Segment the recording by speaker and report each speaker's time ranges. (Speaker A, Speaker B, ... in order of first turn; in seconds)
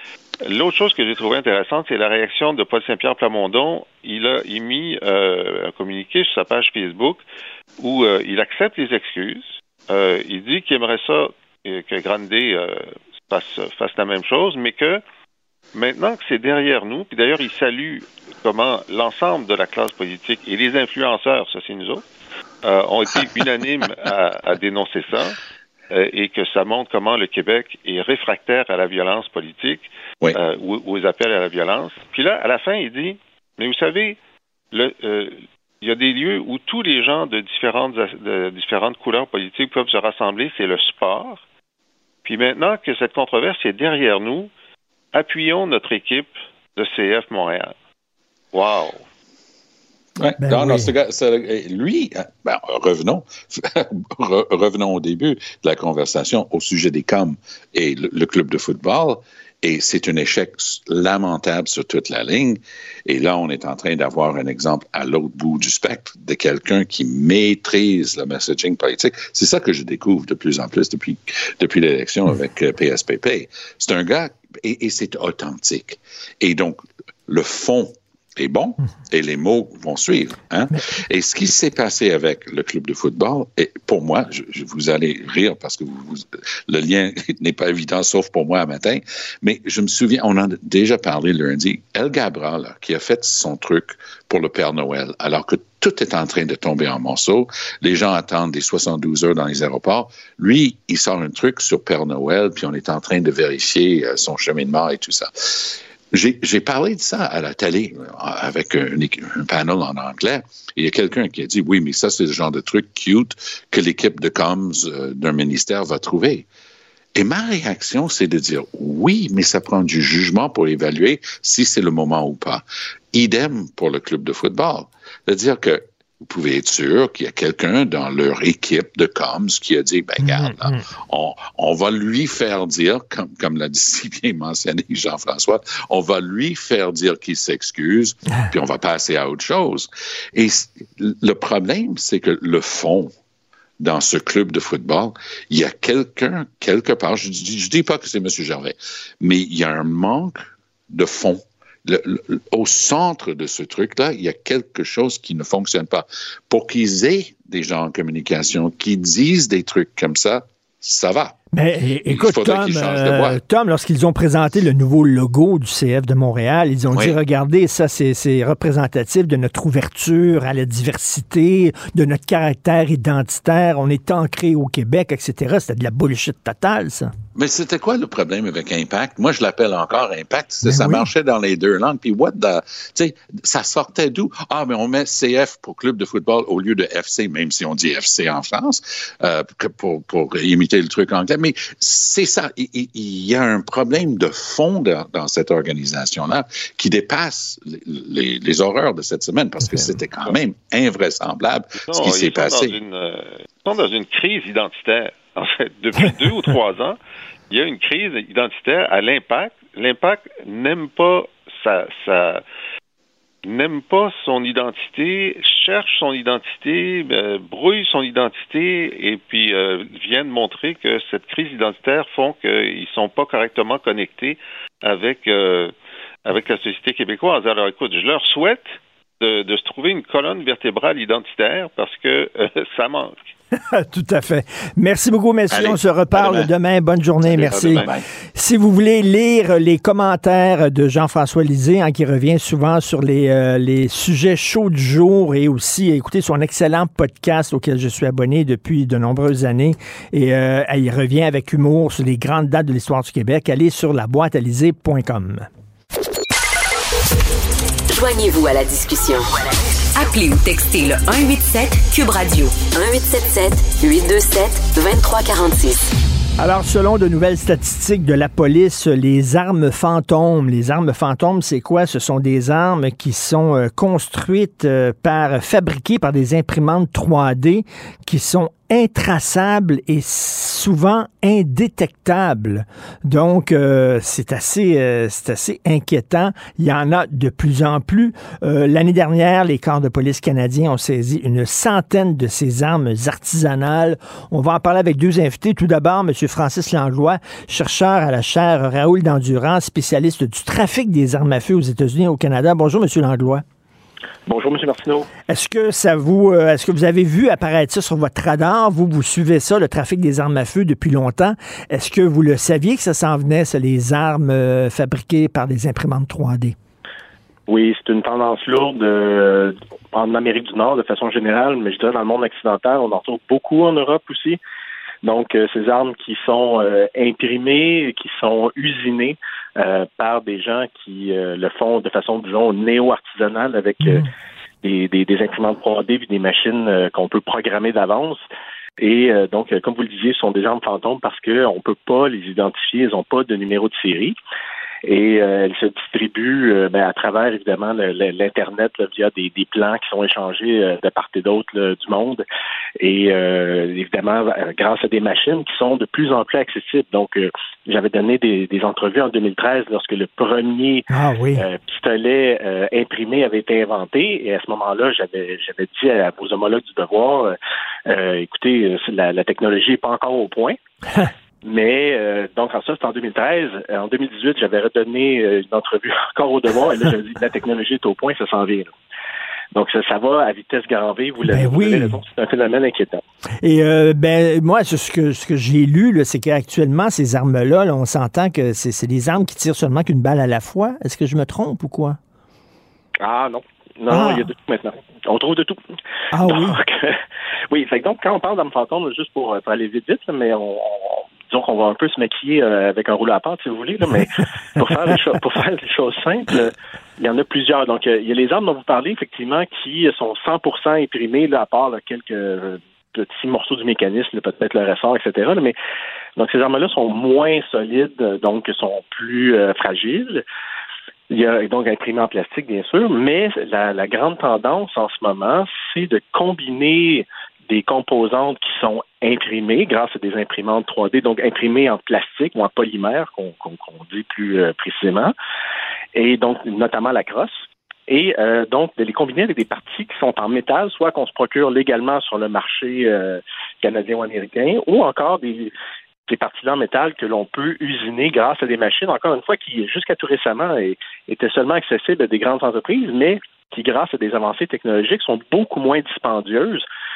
Speaker A: 0.4-7.2, 7.8-15.0, 15.7-22.0, 22.6-25.4, 25.9-34.2, 34.7-41.4, 42.2-44.5, 45.1-47.7, 48.5-49.0, 201.9-207.0, 207.5-212.4, 213.4-225.7, 226.2-233.2
Speaker B: 50.2-116.5, 117.2-143.1, 143.8-161.3, 162.1-163.4, 166.9-167.2, 177.3-202.8, 235.5-236.5, 237.2-238.0
Speaker C: 50.4-50.9, 130.2-130.8, 161.5-177.1, 180.6-181.1, 199.6-199.9, 233.5-255.5, 266.4-303.4, 305.3-316.6, 360.9-361.4, 381.3-382.0, 383.4-392.0, 393.9-394.3, 396.1-396.6
Speaker D: 257.9-265.9
Speaker E: 304.2-305.1, 317.5-324.4, 325.0-334.0, 334.6-338.2, 338.8-344.2, 344.8-352.2, 352.8-360.8, 361.4-367.4, 367.9-370.6, 371.4-378.7, 379.5-383.0, 393.0-395.6, 396.2-396.9, 397.5-415.5, 416.2-420.2, 421.1-435.1, 435.9-445.5, 446.1-456.6